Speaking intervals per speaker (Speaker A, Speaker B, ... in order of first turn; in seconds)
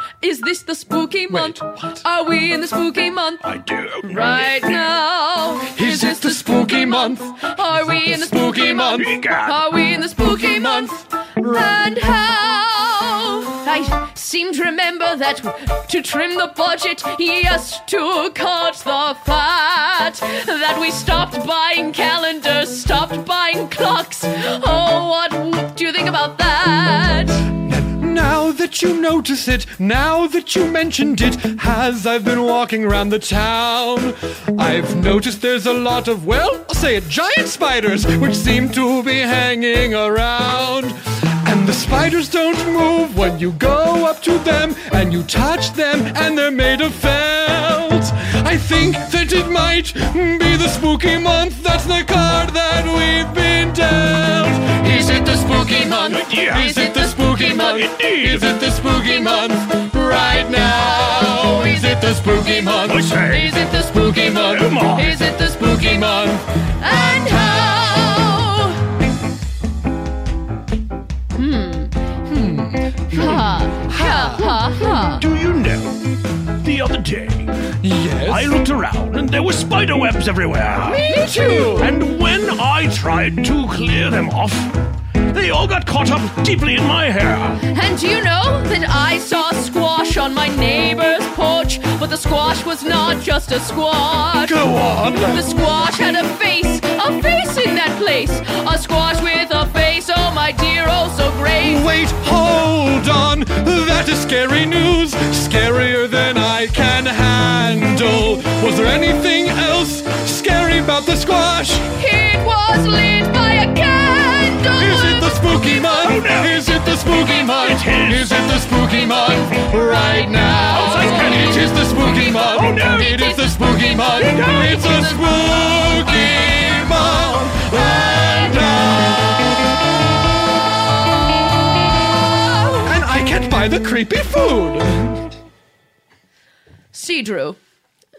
Speaker A: 0.2-3.5, 4.0-27.5, 54.9-57.9, 58.8-59.6, 60.1-68.8, 71.3-71.9, 73.1-75.2, 80.9-81.9, 87.6-94.6, 95.2-101.8, 112.0-116.2, 119.0-126.6, 128.1-128.6, 132.3-132.9, 136.9-137.6
Speaker B: 1.3-2.0, 5.7-9.2, 10.2-11.7, 27.6-68.3, 72.3-74.8, 77.8-78.6, 80.8-82.0, 94.5-95.5, 101.6-111.9, 114.8-129.6, 132.8-135.3
Speaker C: 3.4-4.9, 8.9-9.6, 56.1-56.7, 57.6-58.5, 62.9-65.2, 75.2-76.1, 76.6-77.5, 78.2-81.1, 81.8-84.8, 85.3-87.6, 116.0-116.6, 117.5-118.4, 120.8-121.8, 122.5-123.0, 124.2-124.7